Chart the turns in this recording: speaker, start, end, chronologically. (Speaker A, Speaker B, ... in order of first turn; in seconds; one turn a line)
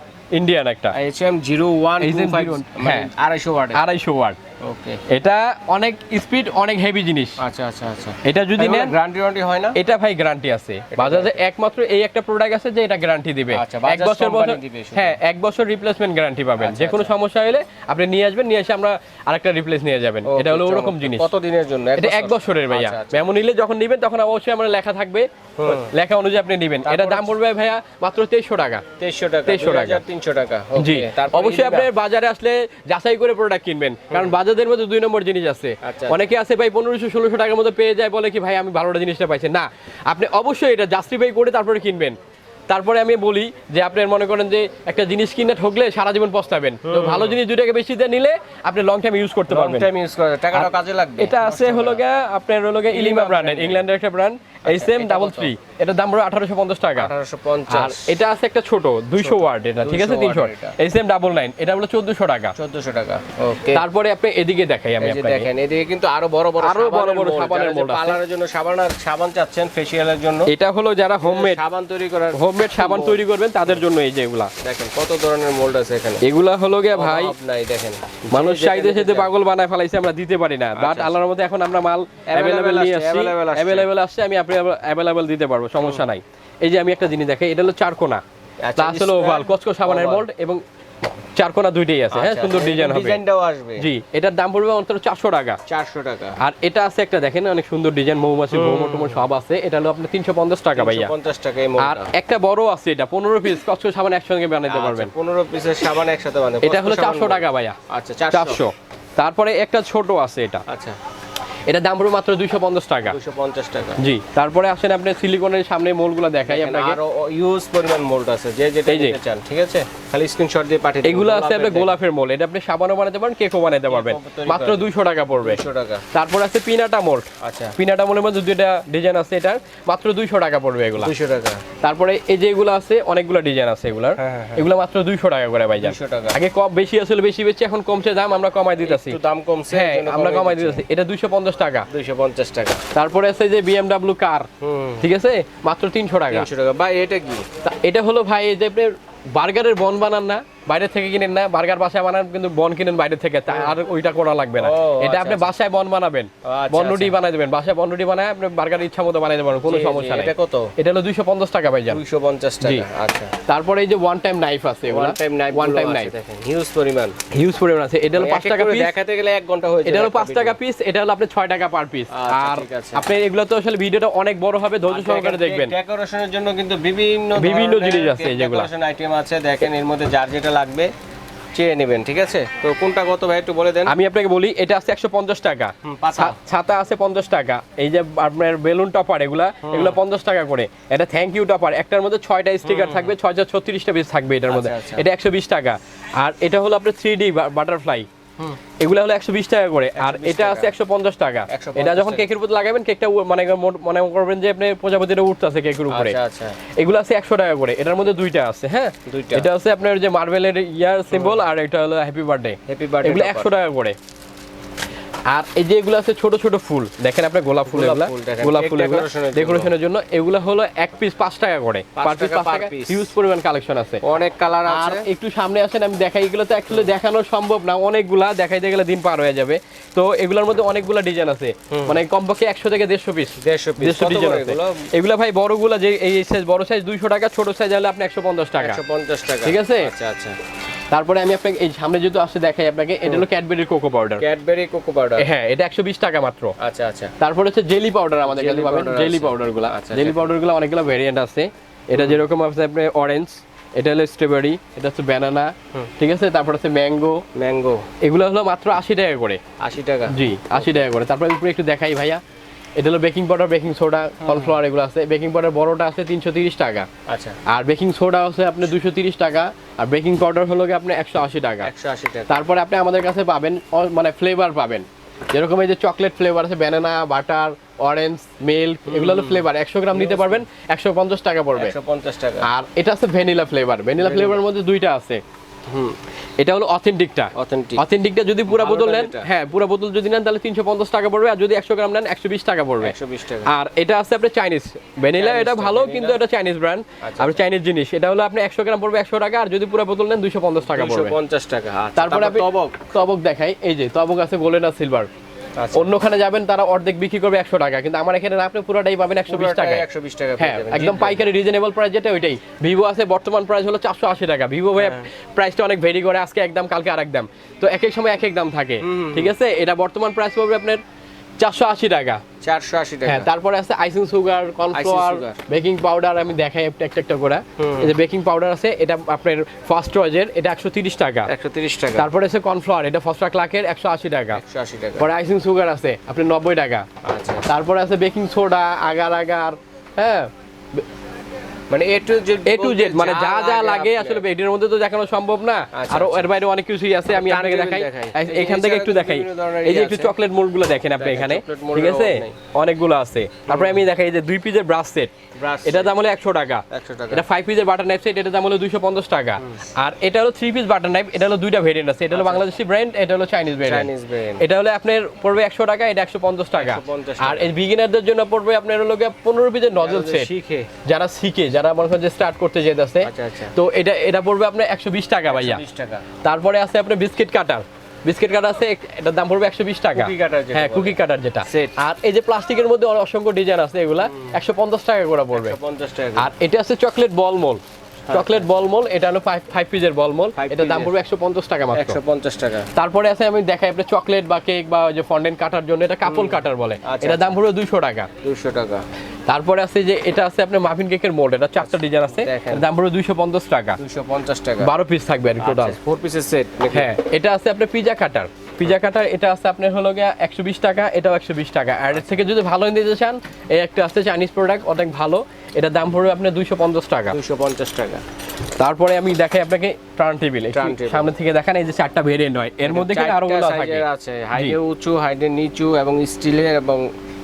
Speaker A: 0.3-1.0
Speaker B: 0.9-3.8
Speaker A: 2.0-3.1
Speaker A: 3.7-4.4
Speaker B: 4.6-5.0
Speaker A: 5.1-7.4
Speaker B: 7.4-9.8
Speaker A: 8.2-8.9
Speaker A: 9.7-21.3
Speaker B: 10.9-11.3
Speaker B: 13.5-15.2
Speaker B: 16.6-17.1
Speaker B: 20.2-23.2
Speaker A: 22.0-28.8
Speaker B: 25.6-25.9
Speaker B: 26.8-27.4
Speaker B: 29.0-31.9
Speaker A: 29.4-30.0
Speaker A: 30.8-42.2
Speaker B: 35.8-36.2
Speaker A: 42.7-49.9
Speaker B: 46.8-47.4
Speaker B: 49.5-52.0
Speaker A: 50.5-57.1
Speaker B: 52.9-53.9
Speaker B: 54.7-55.5
Speaker B: 57.0-58.1
Speaker A: 57.7-62.5
Speaker B: 59.2-60.8
Speaker B: 62.5-63.8
Speaker A: 63.7-65.5
Speaker B: 65.0-70.5
Speaker A: 66.6-68.2
Speaker A: 70.5-71.6
Speaker B: 71.2-73.8
Speaker A: 72.3-74.5
Speaker B: 74.6-76.2
Speaker A: 76.2-77.3
Speaker B: 76.9-79.3
Speaker A: 78.3-88.2
Speaker B: 80.8-81.1
Speaker B: 82.3-83.9
Speaker B: 85.8-86.0
Speaker B: 88.6-90.2
Speaker A: 88.8-90.6
Speaker A: 91.3-93.2
Speaker B: 92.1-93.9
Speaker A: 93.8-95.6
Speaker B: 95.7-96.4
Speaker A: 96.4-101.1
Speaker B: 98.5-99.3
Speaker B: 100.7-102.1
Speaker A: 101.8-105.1
Speaker B: 104.7-108.6
Speaker A: 106.6-107.8
Speaker A: 108.3-110.6
Speaker B: 110.7-111.0
Speaker A: 111.7-113.2
Speaker B: 113.0-114.1
Speaker A: 114.0-117.0
Speaker B: 116.5-121.9
Speaker A: 118.8-119.2
Speaker A: 121.0-125.6
Speaker B: 123.9-126.0
Speaker A: 126.1-131.1
Speaker B: 127.4-127.8
Speaker B: 131.0-131.6
Speaker A: 131.8-139.2
Speaker B: 134.2-134.7
Speaker B: 135.8-136.4
Speaker B: 138.8-140.8
Speaker A: 139.7-141.9
Speaker B: 141.9-142.8
Speaker A: 142.9-144.5
Speaker B: 144.6-145.1
Speaker A: 145.0-146.5
Speaker B: 146.3-147.4
Speaker A: 147.6-162.0
Speaker B: 153.5-153.7
Speaker B: 154.6-155.5
Speaker B: 156.4-157.2
Speaker B: 159.7-160.7
Speaker B: 161.9-163.3
Speaker A: 162.6-162.9
Speaker A: 163.5-166.1
Speaker B: 164.9-167.2
Speaker A: 167.3-168.9
Speaker B: 168.2-170.6
Speaker A: 169.8-175.7
Speaker B: 172.1-173.1
Speaker B: 174.9-180.9
Speaker A: 177.3-178.7
Speaker B: 181.5-183.9
Speaker A: 183.8-198.1
Speaker B: 185.8-186.4
Speaker B: 189.6-190.0
Speaker B: 192.6-193.1
Speaker B: 194.5-195.0
Speaker A: 198.8-206.2
Speaker B: 199.9-200.7
Speaker B: 201.5-202.3
Speaker B: 205.9-206.6
Speaker A: 206.8-214.0
Speaker B: 209.1-209.5
Speaker B: 211.1-211.4
Speaker B: 212.7-213.5
Speaker A: 215.3-224.0
Speaker B: 217.7-219.7
Speaker B: 221.9-223.1
Speaker B: 224.0-225.1
Speaker A: 224.7-238.8
Speaker B: 231.7-232.0
Speaker B: 233.4-234.9
Speaker B: 238.6-240.4
Speaker A: 239.4-239.9
Speaker A: 240.9-244.2
Speaker B: 244.2-245.3
Speaker A: 245.2-246.5
Speaker B: 246.6-247.1
Speaker A: 247.2-257.2
Speaker B: 248.2-250.3
Speaker B: 251.9-252.2
Speaker B: 257.3-257.9
Speaker A: 258.0-259.4
Speaker B: 259.6-260.7
Speaker A: 260.1-262.2
Speaker A: 262.8-266.9
Speaker B: 264.2-264.6
Speaker B: 267.1-267.4
Speaker A: 267.5-271.7
Speaker B: 271.6-272.4
Speaker A: 272.3-281.7
Speaker B: 278.9-280.4
Speaker B: 281.5-282.5
Speaker A: 282.4-285.2
Speaker B: 284.0-284.4
Speaker B: 285.7-286.0
Speaker A: 286.4-292.9
Speaker B: 287.3-287.8
Speaker B: 288.5-289.3
Speaker B: 292.8-293.5
Speaker A: 293.5-301.1
Speaker B: 295.1-296.2
Speaker B: 297.0-297.4
Speaker B: 300.6-302.9
Speaker A: 302.0-305.1
Speaker B: 305.6-305.9
Speaker A: 305.7-309.9
Speaker B: 309.3-311.2
Speaker A: 310.4-320.8
Speaker B: 314.8-315.1
Speaker B: 318.8-319.3
Speaker A: 321.4-322.2
Speaker B: 322.4-323.3
Speaker A: 323.1-331.3
Speaker B: 324.7-325.4
Speaker B: 327.6-327.9
Speaker B: 331.2-332.1
Speaker A: 331.9-334.4
Speaker B: 334.3-335.1
Speaker A: 335.0-336.9
Speaker B: 337.0-337.5
Speaker A: 337.5-340.8
Speaker B: 341.7-344.2
Speaker A: 342.4-355.1
Speaker B: 345.7-346.3
Speaker B: 347.1-350.1
Speaker B: 350.9-352.3
Speaker B: 353.5-353.8
Speaker B: 355.3-355.9
Speaker A: 355.6-363.9
Speaker B: 356.7-357.2
Speaker B: 362.1-362.4
Speaker B: 363.6-364.4
Speaker A: 364.4-370.3
Speaker B: 366.5-367.5
Speaker B: 369.8-370.7
Speaker A: 370.8-375.6
Speaker B: 373.0-373.5
Speaker B: 375.3-376.1
Speaker A: 376.2-385.6
Speaker B: 379.9-381.7
Speaker B: 385.3-386.3
Speaker A: 386.2-392.0
Speaker B: 388.1-388.4
Speaker B: 390.4-390.9
Speaker B: 391.7-392.7
Speaker A: 392.7-398.1
Speaker B: 396.1-397.4
Speaker B: 398.2-398.8
Speaker A: 399.3-403.8
Speaker B: 401.6-402.6
Speaker B: 403.8-404.7
Speaker A: 404.6-405.8
Speaker B: 405.4-406.9
Speaker A: 406.7-417.2
Speaker B: 411.9-412.2
Speaker B: 417.1-418.0
Speaker A: 418.6-424.6
Speaker B: 420.5-421.1
Speaker B: 422.6-426.9